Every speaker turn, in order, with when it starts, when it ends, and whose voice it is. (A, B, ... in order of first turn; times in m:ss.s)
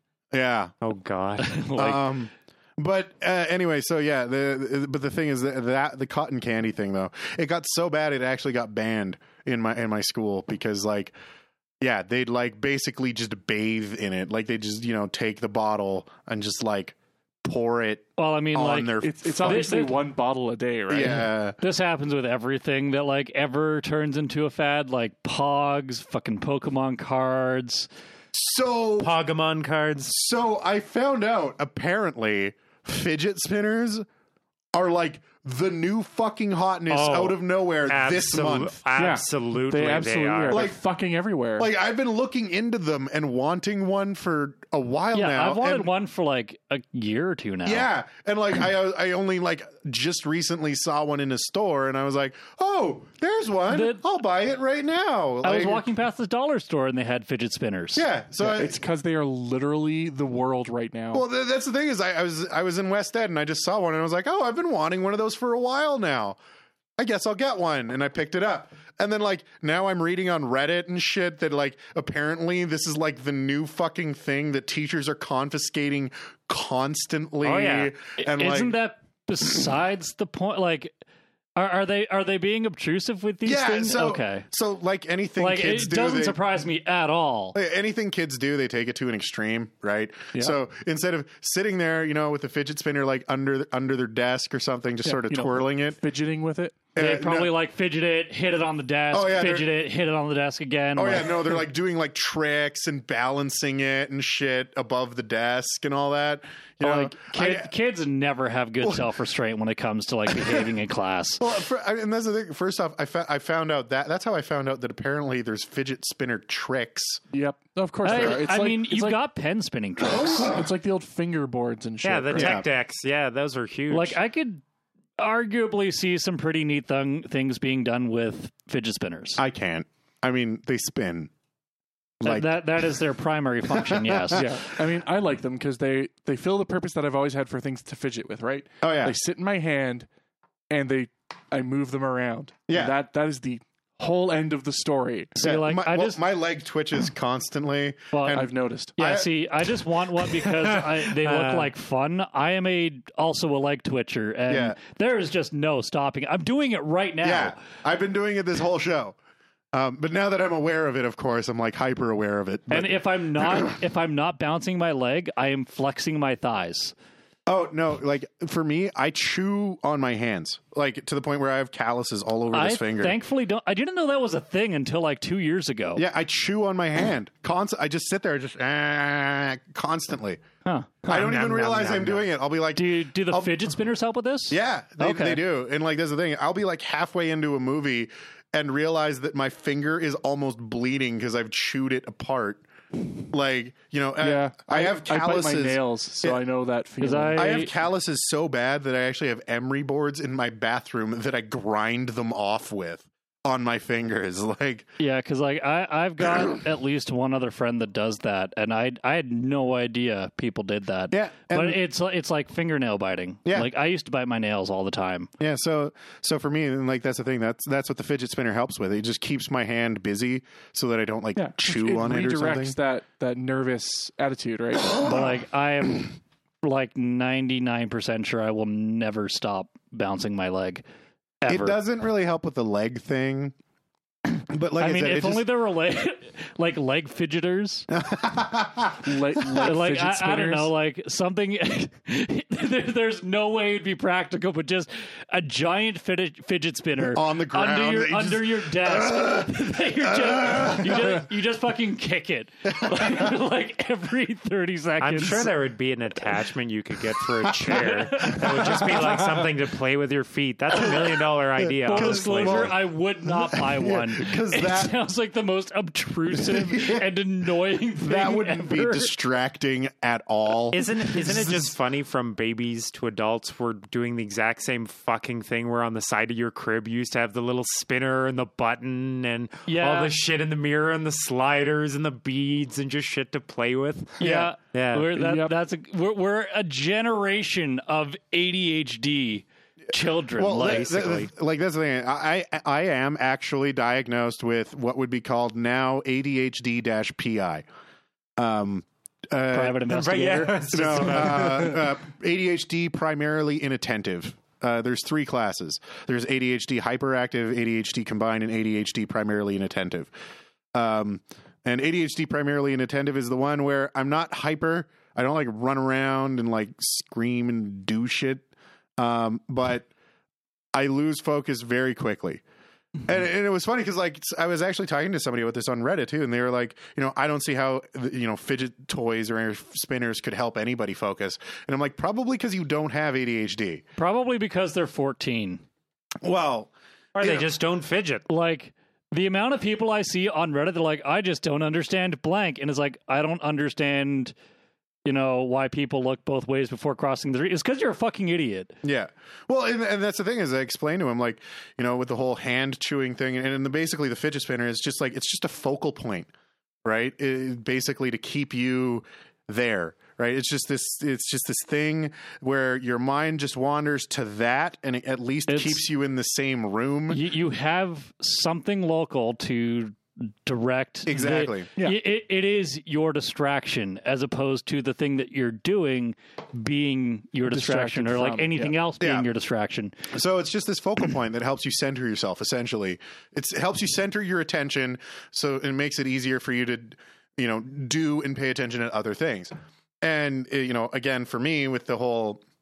0:00.3-0:00.7 A
0:00.8-0:01.6 B
0:01.4-0:02.0 C
0:01.7-0:11.1 A
0:11.8-0:19.7 A
0:18.2-0:20.0 C
0:19.0-0:21.3 D
0:20.9-0:21.6 A
0:21.6-0:27.9 C
0:28.3-0:29.1 A
0:29.0-0:30.1 B
0:30.1-0:34.0 A
0:34.7-0:38.8 A
0:36.9-0:40.6 B
0:39.0-0:41.7 D
0:40.5-0:40.8 A
0:41.6-0:45.9 A
0:45.1-0:47.9 C
0:47.6-0:55.8 A
0:53.7-0:54.0 C
0:55.4-0:58.0 C
0:57.9-0:58.8 A
0:58.4-1:01.2 D
1:01.1-1:06.4 A
1:07.0-1:18.8 A
1:17.4-1:17.9 B
1:18.2-1:20.9 C
1:21.6-1:24.5 C
1:23.4-1:26.4 A
1:25.4-1:27.6 C
1:27.5-1:36.0 A
1:35.0-1:36.8 D
1:36.9-1:37.5 A
1:37.0-1:41.6 C
1:39.1-1:39.7 A
1:41.0-1:47.7 A
1:46.8-1:51.4 C
1:48.8-1:49.1 A
1:51.4-1:57.2 A
1:57.3-1:59.2 D
1:58.0-2:00.6 C
2:00.1-2:02.6 D
2:00.1-2:00.6 A
2:02.0-2:04.2 B
2:02.3-2:02.6 A
2:03.9-2:04.6 C
2:05.2-2:09.4 C
2:09.4-2:11.3 A
2:12.2-2:12.6 A
2:12.2-2:14.5 C
2:13.8-2:14.4 A
2:14.4-2:20.1 D
2:18.8-2:19.2 A
2:20.7-2:25.4 D
2:22.7-2:23.0 A
2:25.4-2:26.2 C
2:25.4-2:29.3 A
2:28.1-2:37.6 C
2:28.3-2:29.0 D
2:30.5-2:31.7 B
2:34.5-2:34.8 A
2:37.2-2:39.2 A
2:39.7-2:43.0 A
2:42.7-2:46.9 C
2:47.5-2:53.2 A
2:52.5-2:56.0 C
2:55.9-3:00.4 A
3:00.6-3:01.0 C
3:01.0-3:02.2 B
3:01.1-3:03.7 A
3:02.7-3:05.4 C
3:04.5-3:12.6 A
3:13.2-3:16.4 A
3:14.2-3:17.6 D
3:17.0-3:17.7 C
3:17.4-3:24.9 A
3:25.0-3:35.3 C
3:31.1-3:31.8 A
3:35.4-3:42.8 A
3:41.4-3:45.2 D
3:45.0-3:50.8 C
3:51.4-3:51.8 C
3:51.5-3:53.5 A
3:54.4-3:55.4 A
3:54.8-3:57.9 C
3:57.9-3:59.6 A
3:59.0-4:00.7 D
3:59.6-4:15.5 C
4:07.0-4:11.2 A
4:12.7-4:13.3 A
4:15.0-4:22.7 B
4:17.6-4:18.9 C
4:17.7-4:19.2 A
4:21.6-4:24.9 A
4:21.9-4:29.1 C
4:26.3-4:27.0 A
4:28.0-4:31.7 A
4:30.7-4:44.2 B
4:39.7-4:40.1 C
4:44.2-4:51.3 C
4:44.2-4:44.5 A
4:44.7-4:45.1 B
4:45.1-4:45.5 D
4:50.4-4:57.6 A
4:58.4-5:10.1 A
4:59.5-5:01.5 C
4:59.9-5:01.8 B
5:10.7-5:18.5 A
5:19.0-5:19.9 A
5:20.7-5:22.4 A
5:23.0-5:33.8 A
5:34.0-5:35.6 C
5:36.2-5:37.4 A
5:37.1-5:38.2 B
5:38.3-5:44.3 C
5:45.0-5:48.8 C
5:48.8-5:56.3 A
5:56.8-6:07.2 A
6:05.5-6:05.8 C
6:07.1-6:19.9 C
6:11.0-6:11.7 A
6:17.4-6:18.7 D
6:19.0-6:19.3 A
6:20.1-6:32.4 A